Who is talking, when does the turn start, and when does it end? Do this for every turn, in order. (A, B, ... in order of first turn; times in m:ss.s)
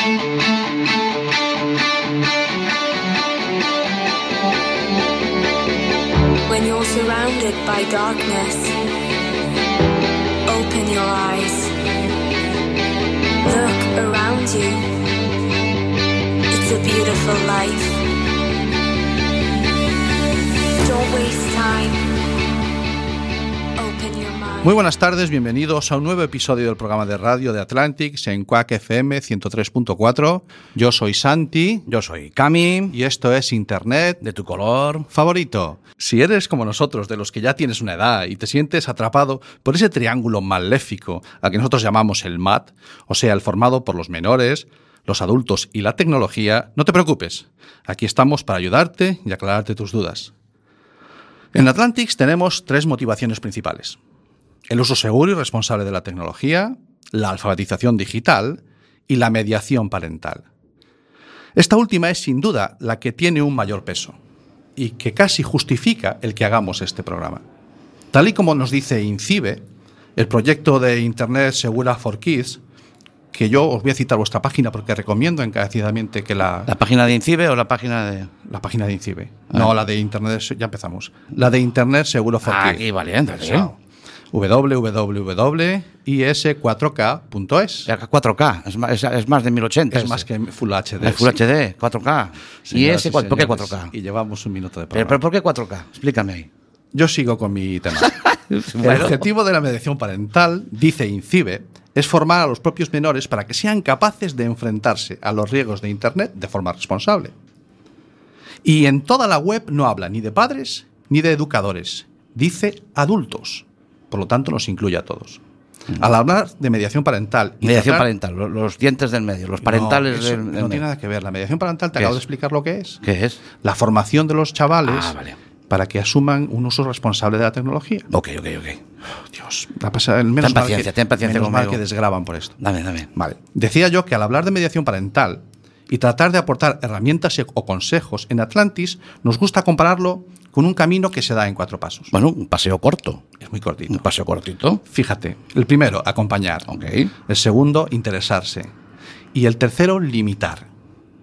0:06.5-0:08.8 A
0:10.5-0:11.8 A
0:13.4-0:15.0 A
0:16.5-0:18.0 A
0:20.8-0:22.1 A
0:23.8-0:24.8 A
0:24.6-0:31.9 B
0:31.9-0:33.0 C
0:32.9-0:34.2 B
0:34.2-0:35.1 C
0:35.1-0:50.3 B
0:51.5-0:54.0 B
0:54.7-1:00.4 B
1:01.6-1:04.2 B
1:04.8-1:07.4 B
1:08.1-1:09.6 B
1:10.2-1:12.6 B
1:13.3-1:16.7 B
1:16.7-1:18.3 C
1:18.5-1:23.8 B
1:22.4-1:23.7 C
1:24.3-1:27.9 B
1:27.9-1:30.3 C
1:29.9-1:31.4 B
1:31.0-1:33.9 C
1:32.6-1:35.2 B
1:34.9-1:36.5 C
1:36.9-1:38.2 B
1:38.2-1:39.2 C
1:38.8-1:47.3 B
1:48.6-1:55.4 B
1:56.0-1:58.1 B
1:57.6-2:00.8 C
1:59.6-2:03.0 B
2:03.0-2:03.4 C
2:03.6-2:05.2 B
2:04.8-2:05.4 C
2:05.7-2:08.1 B
2:08.1-2:08.8 C
2:09.3-2:12.6 B
2:10.4-2:11.8 C
2:12.6-2:13.1 C
2:13.2-2:22.1 B
2:22.1-2:23.2 C
2:23.4-2:24.1 B
2:23.9-2:24.8 C
2:24.9-2:26.7 B
2:26.7-2:27.1 C
2:27.3-2:28.7 B
2:29.3-2:30.7 B